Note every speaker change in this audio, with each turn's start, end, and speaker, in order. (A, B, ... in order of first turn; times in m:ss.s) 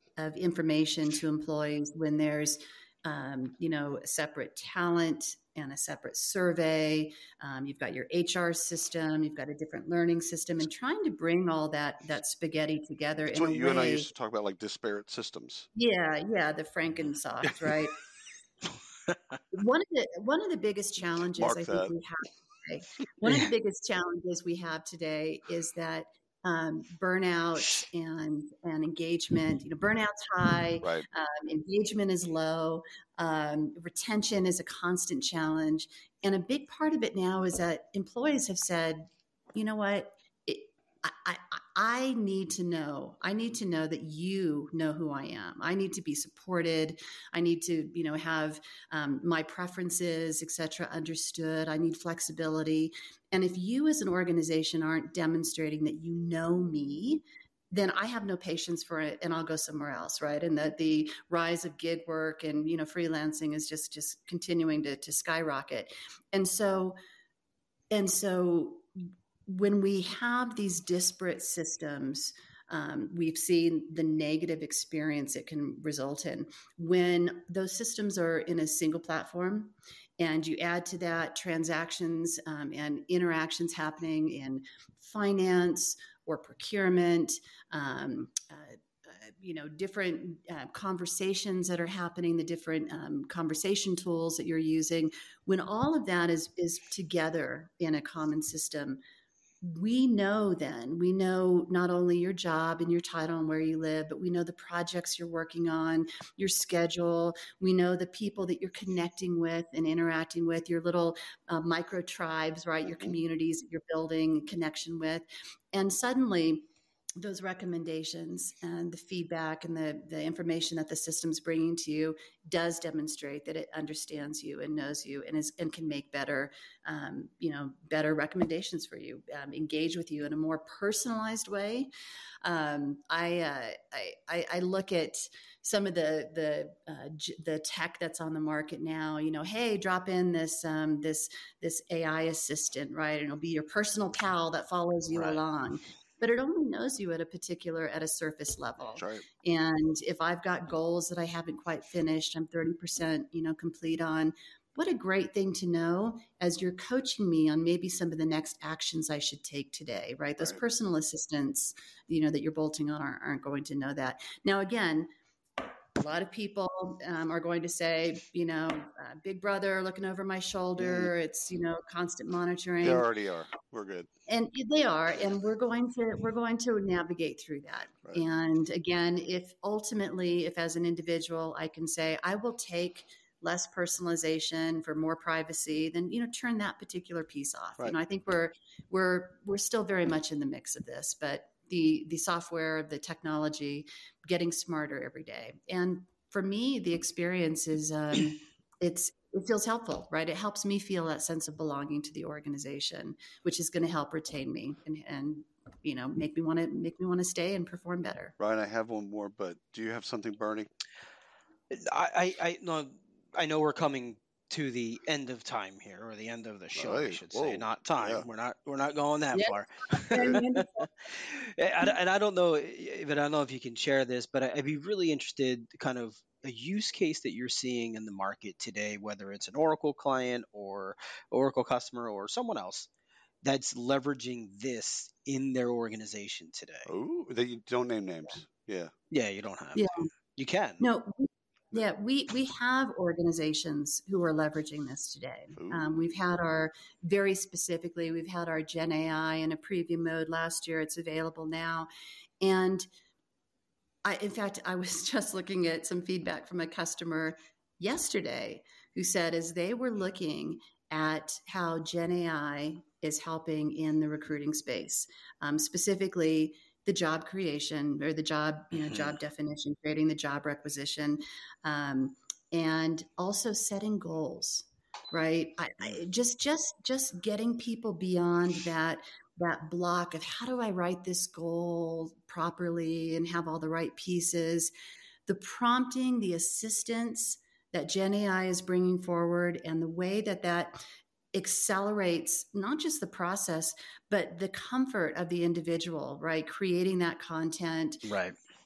0:00.2-0:14.1 A
0:13.3-0:15.7 B
0:15.7-0:18.0 A
0:19.5-1:07.0 A
0:21.3-0:21.9 B
1:07.9-1:08.8 A
1:09.5-1:39.0 A
1:39.6-2:11.9 A
2:12.4-2:45.1 A
2:25.1-2:25.4 C
2:29.0-2:29.2 B
2:46.0-2:53.0 A
2:50.8-2:51.1 B
2:52.8-2:54.1 B
2:54.3-3:28.3 A
3:28.4-3:30.7 B
3:31.7-3:52.9 C
3:36.8-3:38.3 B
3:39.3-3:40.9 A
3:53.4-3:56.9 C
3:56.8-3:58.9 B
3:59.1-4:00.8 C
3:59.7-4:00.1 A
4:00.8-4:11.9 A
4:05.6-4:05.9 B
4:12.4-4:12.8 A
4:14.0-4:44.7 A
4:28.7-4:29.1 C
4:45.2-4:50.8 A
4:51.3-4:58.0 A
4:58.0-4:58.4 C